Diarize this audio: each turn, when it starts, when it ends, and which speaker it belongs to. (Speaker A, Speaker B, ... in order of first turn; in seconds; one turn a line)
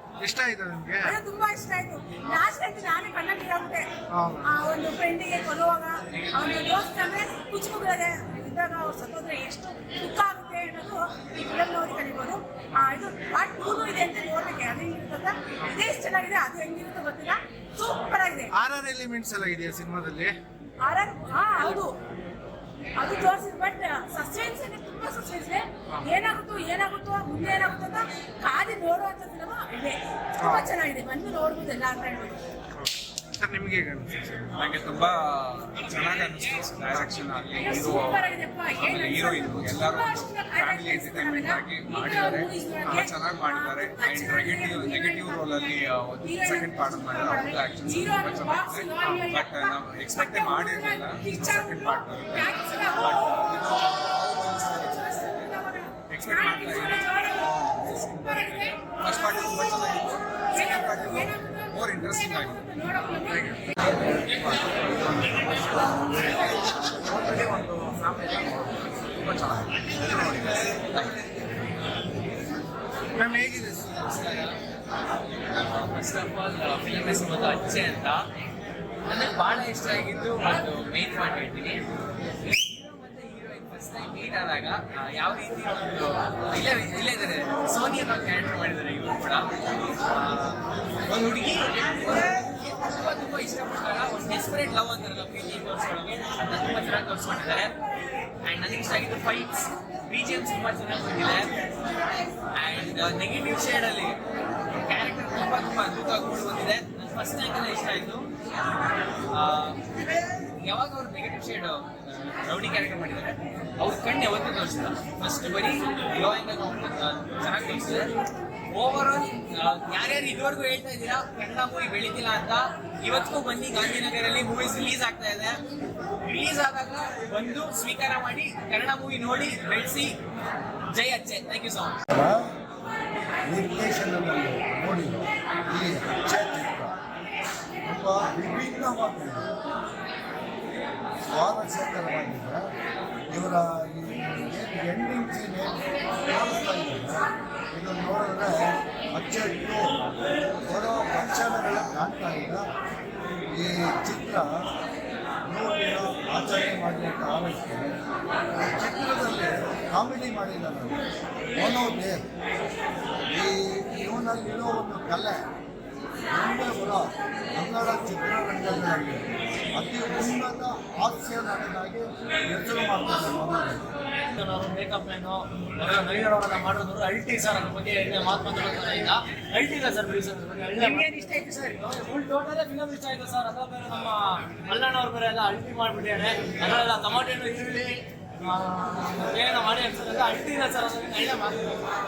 Speaker A: 0.2-1.1
Speaker B: 1.0-3.9
Speaker A: 4.1-4.4
Speaker B: 4.4-18.5
Speaker A: 18.5-20.4
Speaker B: 20.8-21.9
Speaker B: 23.0-32.4
Speaker A: 32.8-34.6
Speaker C: 34.6-38.2
Speaker B: 37.6-45.5
Speaker C: 38.8-55.4
Speaker B: 46.2-58.8
Speaker A: 49.0-49.3
Speaker C: 56.1-62.6
Speaker B: 60.5-63.8
Speaker A: 63.3-64.3
Speaker C: 64.5-66.5
Speaker D: 67.1-68.3
Speaker C: 68.2-70.7
Speaker D: 70.0-71.2
Speaker A: 73.2-73.9
Speaker D: 73.7-74.6
Speaker D: 75.6-78.3
Speaker D: 79.1-81.8
Speaker D: 82.4-89.5
Speaker D: 90.1-97.7
Speaker D: 98.5-101.5
Speaker D: 102.5-104.2
Speaker D: 104.8-108.3
Speaker D: 109.3-109.8
Speaker D: 110.6-118.1
Speaker D: 118.7-125.6
Speaker D: 126.2-130.2
Speaker D: 130.9-132.0
Speaker E: 132.1-132.4
Speaker E: 133.5-136.9
Speaker E: 137.8-139.5
Speaker E: 141.3-142.7
Speaker E: 143.3-150.0
Speaker E: 150.7-152.7
Speaker E: 153.5-154.6
Speaker E: 155.5-158.0
Speaker E: 158.6-161.0
Speaker E: 161.6-162.2
Speaker E: 163.3-165.4
Speaker E: 166.3-173.8
Speaker F: 174.3-191.8
Speaker D: 180.8-181.8